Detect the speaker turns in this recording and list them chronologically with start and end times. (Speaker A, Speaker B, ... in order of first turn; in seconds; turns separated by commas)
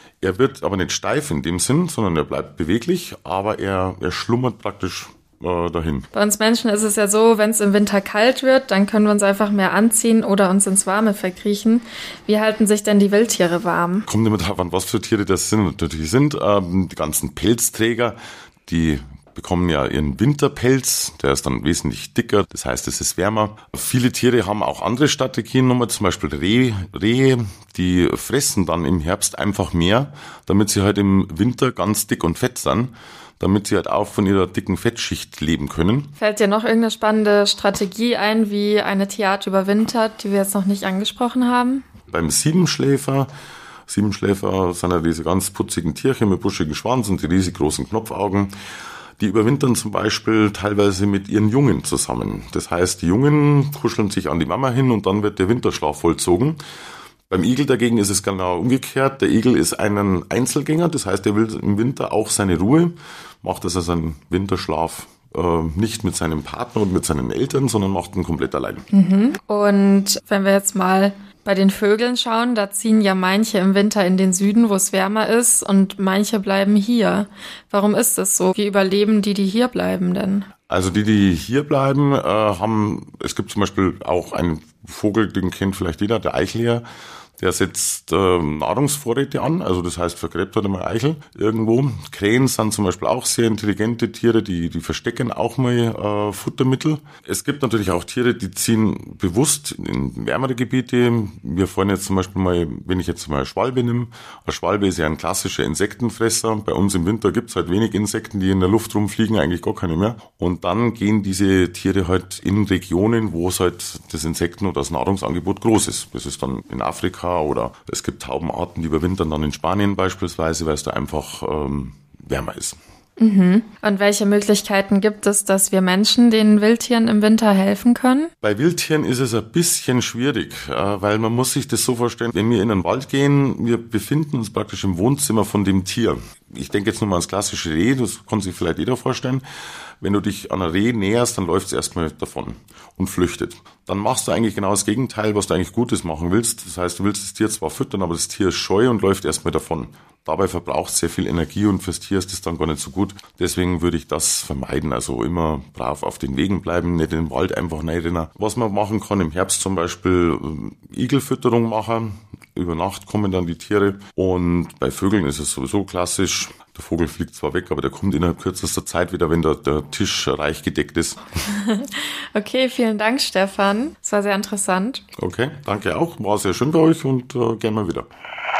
Speaker A: 0.2-6.1, Speaker B: 6.1-14.1, Speaker A: 14.1-36.1, Speaker B: 36.2-41.9, Speaker A: 42.1-43.3, Speaker A: 43.9-48.5, Speaker A: 49.2-56.6, Speaker A: 57.3-68.8, Speaker B: 68.9-80.5, Speaker A: 80.7-86.8, Speaker A: 87.4-122.8, Speaker B: 123.2-128.3, Speaker A: 128.4-139.4, Speaker A: 140.0-171.2, Speaker B: 171.4-175.0, Speaker A: 175.2-178.1